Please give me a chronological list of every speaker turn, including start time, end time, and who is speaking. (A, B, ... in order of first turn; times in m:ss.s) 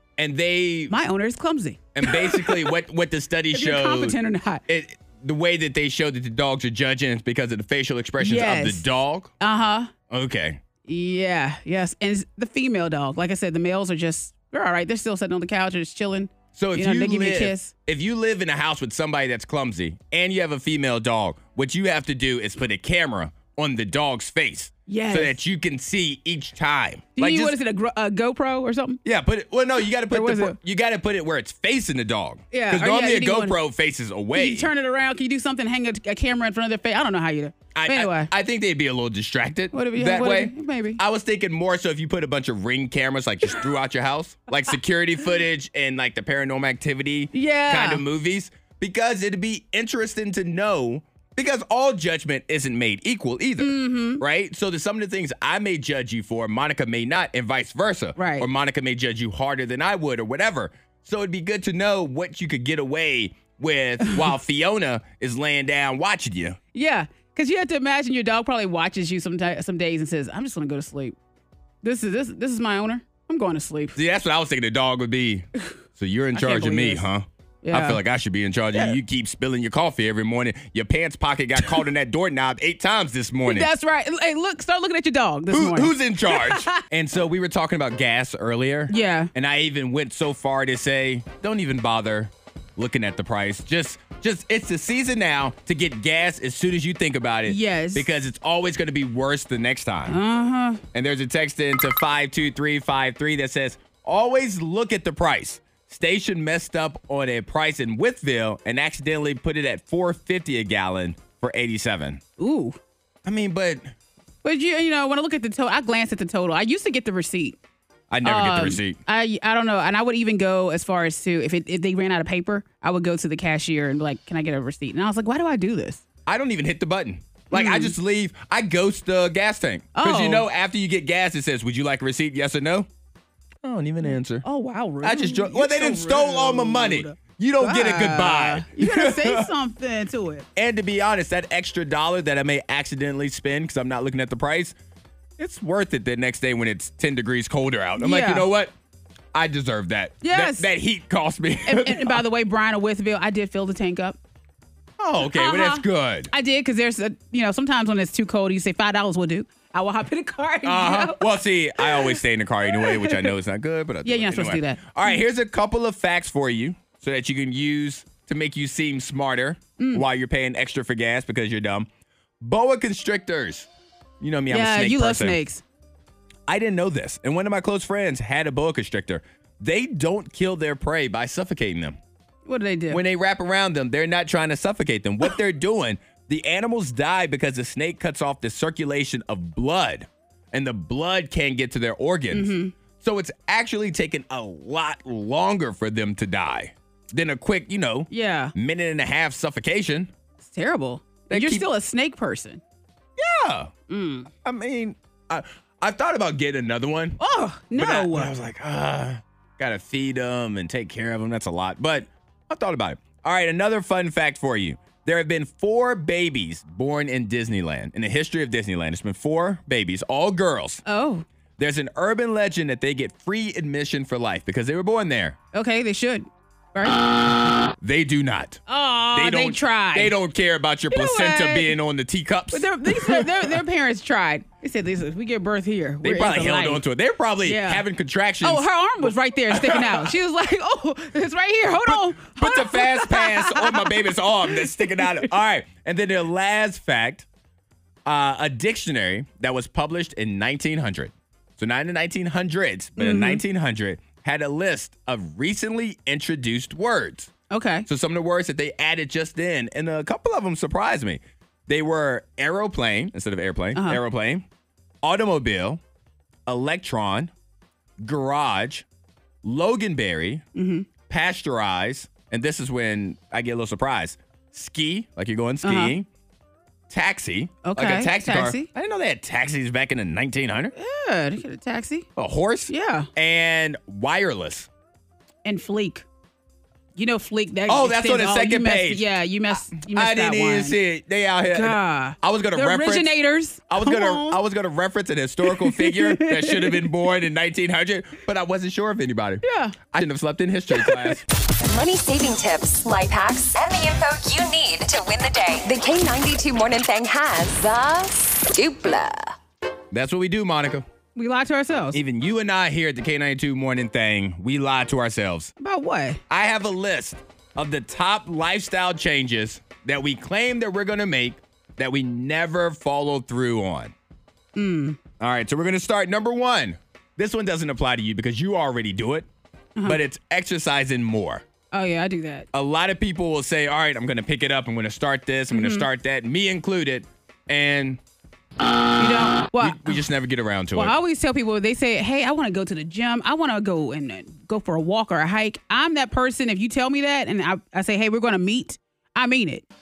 0:00.2-0:00.9 A
0:00.9-0:02.7 B
0:02.0-0:09.3 A
0:03.5-0:04.6 B
0:08.2-0:08.8 B
0:09.4-0:09.9 B
0:10.1-0:10.6 A
0:10.9-0:17.7 B
0:16.5-0:27.6 A
0:24.9-0:25.4 B
0:27.2-0:29.0 B
0:29.0-0:34.7 A
0:30.1-0:30.6 B
0:32.5-0:33.6 B
0:34.3-0:38.3 B
0:37.8-1:06.6 A
0:39.7-0:41.0 B
0:47.3-0:48.0 B
0:53.6-0:54.2 B
0:58.2-0:58.5 B
1:06.7-1:11.2 B
1:11.8-1:14.0 B
1:14.0-1:23.7 A
1:16.4-1:17.1 B
1:17.6-1:18.0 B
1:23.5-1:26.8 B
1:25.5-1:40.2 A
1:28.9-1:29.3 B
1:37.5-1:38.1 B
1:40.1-1:40.8 B
1:40.9-1:52.2 A
1:52.4-1:52.8 B
1:53.2-1:53.9 A
1:54.4-1:57.6 B
1:58.1-1:59.0 A
1:58.2-2:06.0 B
2:06.3-2:12.9 A
2:07.5-2:07.9 B
2:10.0-2:10.5 B
2:13.6-2:14.4 A
2:14.4-2:20.5 B
2:15.0-2:19.5 A
2:20.6-2:24.8 A
2:25.4-2:28.7 A
2:28.0-2:28.5 B
2:29.3-2:32.2 A
2:30.2-2:30.7 B
2:31.7-2:34.2 B
2:35.0-2:36.3 A
2:35.3-2:42.2 B
2:40.6-2:51.9 A
2:42.7-2:43.3 B
2:44.0-2:45.2 B
2:49.8-2:50.0 B
2:52.4-2:53.7 A
2:54.2-2:55.4 A
2:54.5-2:55.6 B
2:56.5-3:02.0 A
3:02.5-3:03.0 B
3:02.9-3:20.1 A
3:12.3-3:12.8 B
3:18.1-3:18.5 B
3:20.4-3:22.6 B
3:21.3-3:21.7 A
3:23.2-3:23.7 A
3:23.9-3:24.3 B
3:24.4-3:27.2 A
3:27.2-3:28.3 B
3:27.7-3:40.8 A
3:40.8-3:41.2 B
3:41.6-3:45.4 A
3:45.5-3:47.2 B
3:47.8-3:48.6 A
3:48.7-3:50.2 B
3:49.1-3:53.3 A
3:50.9-3:51.7 B
3:52.5-3:56.8 B
3:56.0-4:00.1 A
3:57.4-3:57.8 B
3:58.4-4:05.3 B
4:01.9-4:07.3 A
4:08.1-4:17.3 A
4:13.0-4:13.4 B
4:17.5-4:17.9 B
4:17.9-4:24.4 A
4:23.8-4:24.0 B
4:25.0-4:25.8 A
4:26.5-4:27.3 A
4:28.0-4:28.8 A
4:29.4-4:30.4 A
4:30.6-4:30.9 B
4:31.1-4:36.1 A
4:35.6-4:35.9 B
4:36.9-4:40.7 A
4:37.6-4:38.7 B
4:40.8-4:42.1 B
4:42.2-4:44.7 A
4:42.7-4:43.1 B
4:45.4-4:46.1 B
4:47.0-4:50.8 B
4:47.7-4:53.1 A
4:51.4-4:54.4 B
4:53.7-5:01.2 A
4:55.4-4:56.9 B
4:59.4-4:59.8 B
5:00.7-5:01.1 B
5:01.6-5:09.3 C
5:09.9-5:10.9 A
5:11.2-5:12.0 B
5:11.9-5:15.5 A
5:15.6-5:16.2 B
5:16.3-5:23.9 A
5:24.6-5:25.0 B
5:25.2-5:29.3 A
5:29.9-5:31.4 A
5:31.7-5:32.5 B
5:32.5-5:38.0 A
5:35.5-5:35.9 B
5:39.0-5:40.0 B
5:39.6-5:41.0 A
5:40.7-5:49.7 B